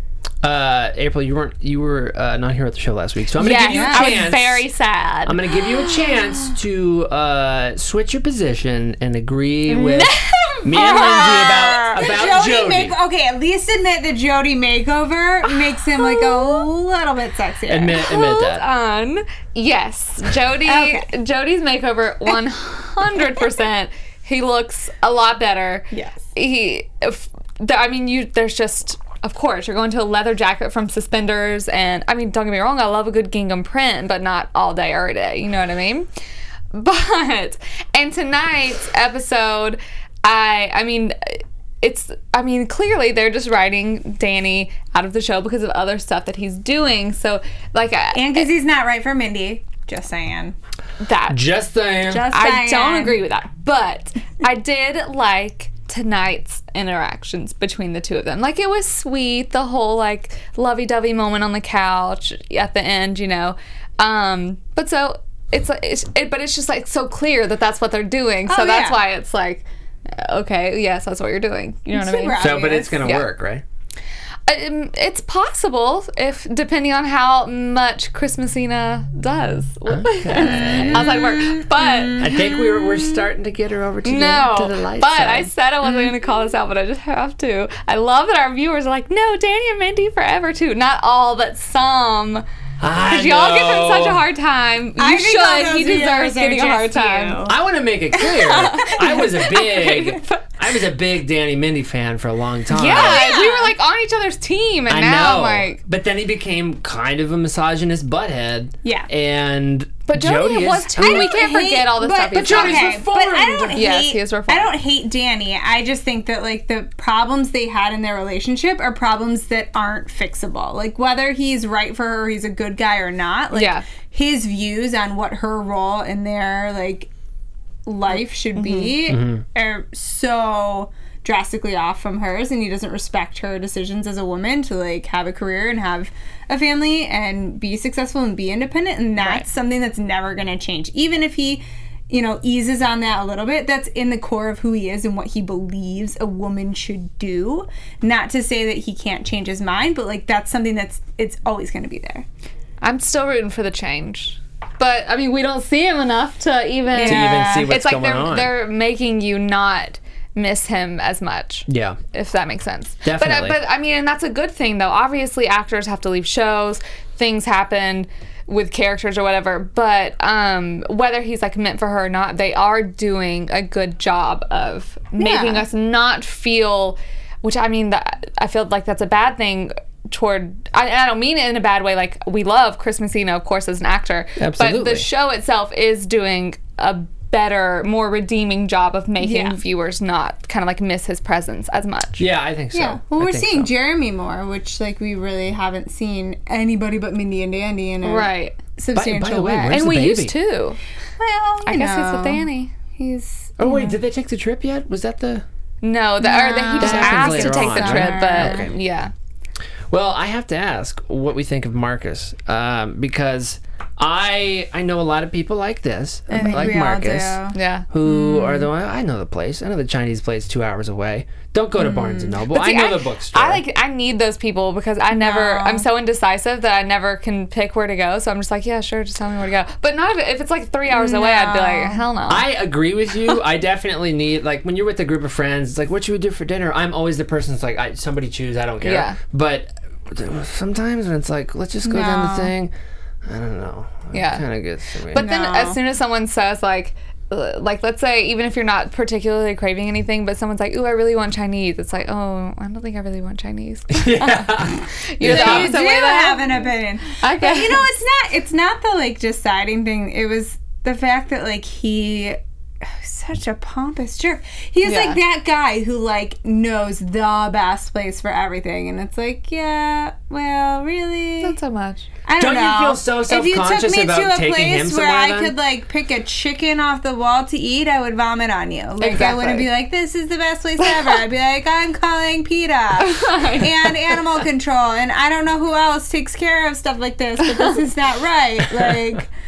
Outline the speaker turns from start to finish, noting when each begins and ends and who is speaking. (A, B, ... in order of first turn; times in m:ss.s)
0:00.4-0:04.7 A
0:03.4-0:06.5 B
0:03.4-0:04.3 C
0:05.2-0:12.9 A
0:09.7-0:12.0 B
0:10.7-0:18.0 C
0:16.0-0:16.6 B
0:17.7-0:18.6 A
0:17.9-0:36.1 B
0:20.6-0:21.1 C
0:25.9-0:26.2 C
0:36.7-0:48.5 B
0:48.1-0:50.5 C
0:51.0-0:51.5 B
0:51.3-0:52.3 A
0:52.0-0:53.2 C
0:52.1-1:13.2 B
1:08.5-1:09.0 C
1:11.9-1:13.1 C
1:12.4-1:13.6 A
1:14.5-1:22.3 B
1:19.9-1:21.1 A
1:20.4-1:23.1 C
1:22.2-1:25.5 A
1:24.0-1:32.4 B
1:25.8-1:26.1 C
1:32.8-1:34.2 A
1:33.1-1:37.4 B
1:35.0-1:37.6 C
1:37.5-1:43.2 A
1:38.2-1:39.3 C
1:38.5-1:40.4 B
1:42.7-1:45.8 B
1:42.9-1:43.7 C
1:44.9-1:51.4 A
1:48.8-1:49.1 C
1:50.1-1:53.0 B
1:51.0-2:07.1 C
1:52.3-1:53.8 A
1:53.7-1:54.8 B
2:03.5-2:03.8 B
2:07.8-2:32.3 C
2:08.5-2:09.0 B
2:09.1-2:09.4 A
2:19.2-2:19.4 B
2:32.8-3:12.2 B
2:36.9-2:37.7 C
2:37.0-2:38.5 A
2:41.7-2:42.0 A
2:43.0-2:43.6 A
2:55.2-2:55.6 C
3:04.4-3:05.0 A
3:09.2-3:09.6 C
3:12.2-3:13.7 A
3:12.7-3:19.8 C
3:18.0-3:18.6 B
3:18.9-3:20.3 A
3:19.7-3:20.8 B
3:21.2-3:24.0 C
3:21.6-3:22.7 B
3:23.6-3:25.4 A
3:25.8-3:29.1 B
3:26.2-3:28.7 C
3:26.8-3:28.7 A
3:29.9-3:43.6 A
3:36.3-3:38.7 C
3:36.4-3:36.7 B
3:37.5-3:37.8 B
3:41.8-3:42.3 C
3:42.5-3:52.5 B
3:45.1-3:45.9 C
3:50.9-3:52.0 C
3:52.3-4:02.7 A
3:58.8-3:59.2 B
4:01.8-4:02.5 C
4:03.2-4:05.3 A
4:04.1-4:04.4 B
4:05.1-4:17.8 B
4:05.1-4:05.8 C
4:13.9-4:15.7 A
4:15.2-4:31.6 C
4:24.8-4:25.2 B
4:31.4-4:32.1 B
4:32.3-4:49.3 C
4:32.4-4:35.5 A
4:39.0-4:39.7 B
4:43.0-4:44.0 B
4:47.5-4:47.8 B